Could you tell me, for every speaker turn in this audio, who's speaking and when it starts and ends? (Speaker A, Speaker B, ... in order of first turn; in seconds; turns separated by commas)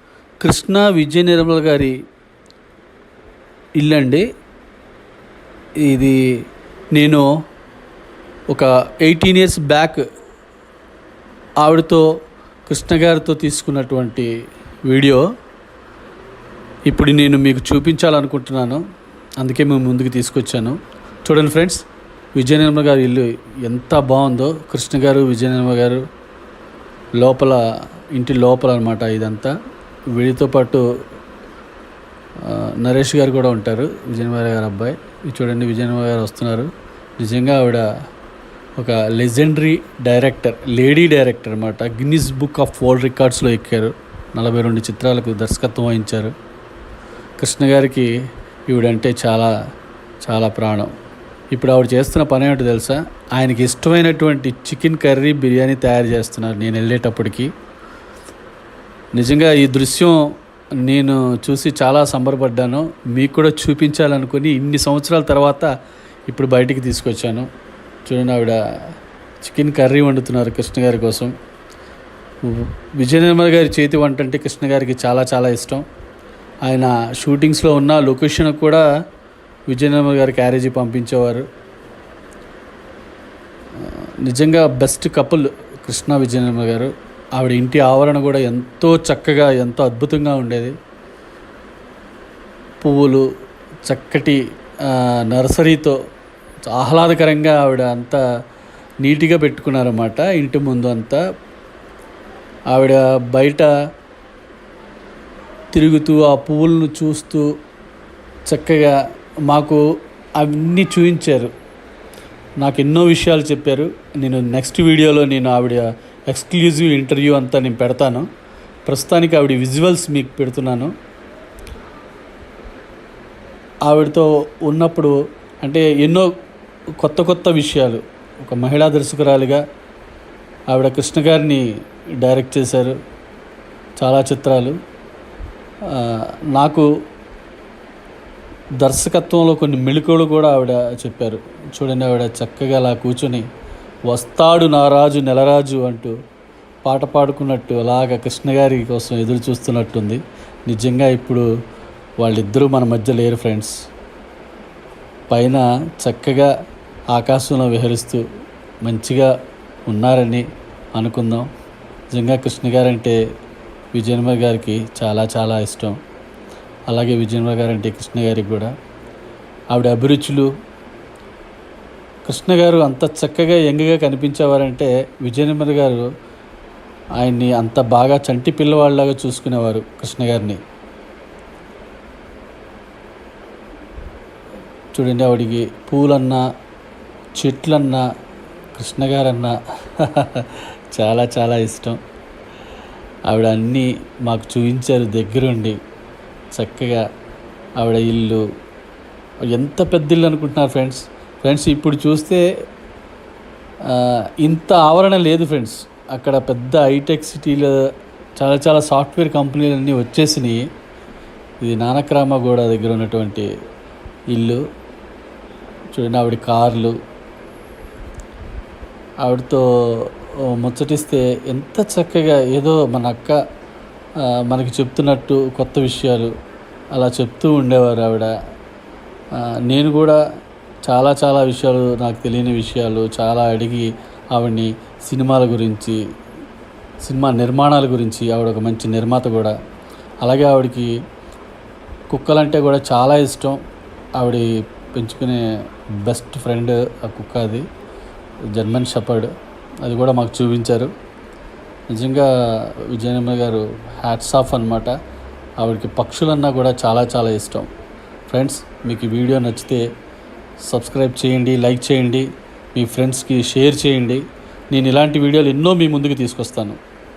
Speaker A: 0.4-1.9, Speaker A: 3.8-4.2, Speaker A: 5.8-6.2, Speaker A: 6.9-7.3, Speaker A: 8.5-10.0, Speaker A: 11.6-12.1, Speaker A: 12.7-14.3, Speaker A: 14.9-15.2, Speaker A: 16.9-18.8, Speaker A: 19.4-21.8, Speaker A: 22.4-26.0, Speaker A: 27.2-27.6, Speaker A: 28.1-29.5, Speaker A: 30.1-30.8, Speaker A: 32.4-37.8, Speaker A: 38.8-46.3, Speaker A: 47.4-48.1, Speaker A: 48.7-49.5, Speaker A: 50.2-50.9, Speaker A: 51.5-57.5, Speaker A: 59.1-60.2, Speaker A: 60.8-65.7, Speaker A: 66.3-67.5, Speaker A: 68.1-68.6, Speaker A: 69.4-71.3, Speaker A: 72.4-75.8, Speaker A: 76.6-78.8, Speaker A: 79.7-81.4, Speaker A: 83.8-90.7, Speaker A: 92.8-93.2, Speaker A: 93.9-96.0, Speaker A: 96.7-98.2, Speaker A: 99.0-101.2, Speaker A: 102.7-103.7, Speaker A: 105.7-107.5, Speaker A: 108.5-109.0, Speaker A: 109.5-109.8, Speaker A: 110.4-111.5, Speaker A: 112.6-118.2, Speaker A: 118.9-120.9, Speaker A: 123.9-126.3, Speaker A: 127.0-129.6, Speaker A: 130.7-131.6, Speaker A: 132.2-132.9, Speaker A: 134.0-134.8, Speaker A: 135.9-136.9, Speaker A: 138.8-143.4, Speaker A: 144.1-146.1, Speaker A: 146.8-151.5, Speaker A: 152.2-153.7, Speaker A: 155.3-156.5, Speaker A: 157.1-158.2, Speaker A: 158.8-159.3, Speaker A: 159.9-161.5, Speaker A: 162.1-163.2, Speaker A: 163.9-165.9, Speaker A: 166.9-168.7, Speaker A: 169.7-170.5, Speaker A: 172.2-176.1, Speaker A: 177.2-180.6, Speaker A: 184.9-186.4, Speaker A: 187.4-188.1, Speaker A: 188.7-192.0, Speaker A: 193.3-195.8, Speaker A: 196.5-197.0, Speaker A: 197.8-198.4, Speaker A: 199.5-202.4, Speaker A: 203.8-207.8, Speaker A: 208.4-210.6, Speaker A: 211.6-213.5, Speaker A: 214.3-214.6, Speaker A: 215.9-216.9, Speaker A: 219.2-223.4, Speaker A: 224.2-226.3, Speaker A: 226.9-228.3, Speaker A: 229.4-230.2, Speaker A: 230.9-236.0, Speaker A: 237.0-239.5, Speaker A: 240.2-240.9, Speaker A: 242.1-243.6, Speaker A: 244.2-245.4, Speaker A: 246.0-247.6, Speaker A: 248.5-249.3, Speaker A: 249.8-250.9, Speaker A: 251.9-254.9, Speaker A: 255.6-257.7, Speaker A: 258.3-259.8, Speaker A: 260.7-266.8